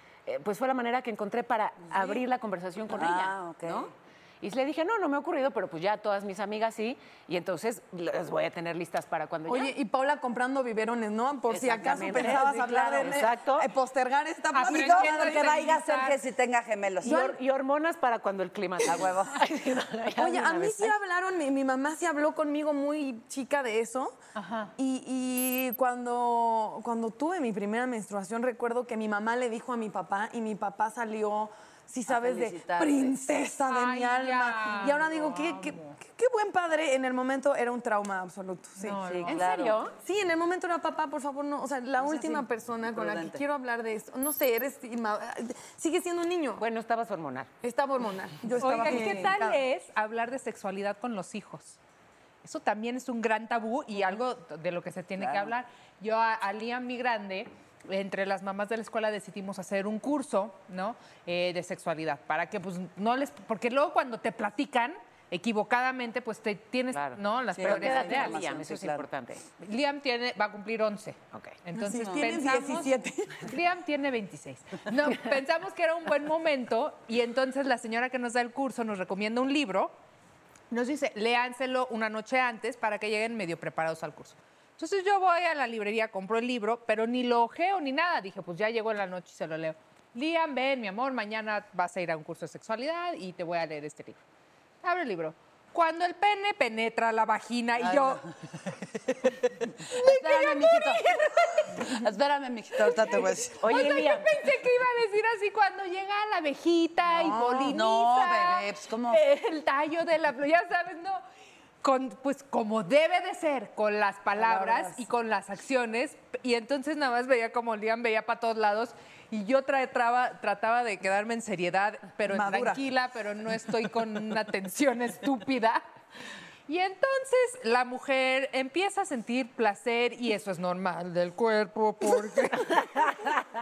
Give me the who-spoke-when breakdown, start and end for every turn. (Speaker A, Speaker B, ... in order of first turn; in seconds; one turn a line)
Speaker A: 0.3-9.7
Speaker B: 2.9-3.9
Speaker C: 9.5-15.5
Speaker A: 11.5-13.7
Speaker B: 12.2-13.2
Speaker D: 14.5-16.2
Speaker B: 14.6-17.3
Speaker A: 17.0-21.0
Speaker C: 17.1-17.3
Speaker B: 18.9-19.2
Speaker C: 20.1-24.2
Speaker D: 24.4-24.7
Speaker C: 24.8-39.2
Speaker B: 32.1-33.1
Speaker D: 33.7-35.9
Speaker D: 38.8-39.5
Speaker A: 39.2-39.9
Speaker B: 39.2-39.8
Speaker C: 40.0-46.6
Speaker B: 42.0-43.4
Speaker A: 46.6-47.5
Speaker C: 47.6-49.6
Speaker D: 48.6-51.8
Speaker D: 52.4-68.4
Speaker A: 66.9-69.4
Speaker B: 67.5-69.1
Speaker D: 69.6-79.9
Speaker C: 71.8-73.5
Speaker B: 72.0-72.3
Speaker D: 80.7-94.2
Speaker D: 94.8-98.2
Speaker B: 97.8-98.3
Speaker B: 99.9-101.1
Speaker D: 100.0-101.9
Speaker B: 101.7-103.6
Speaker D: 103.2-111.2
Speaker A: 103.6-104.3
Speaker C: 107.1-107.8
Speaker B: 107.7-109.2
Speaker D: 111.8-125.8
Speaker C: 114.3-115.0
Speaker C: 122.3-122.8
Speaker D: 126.7-132.7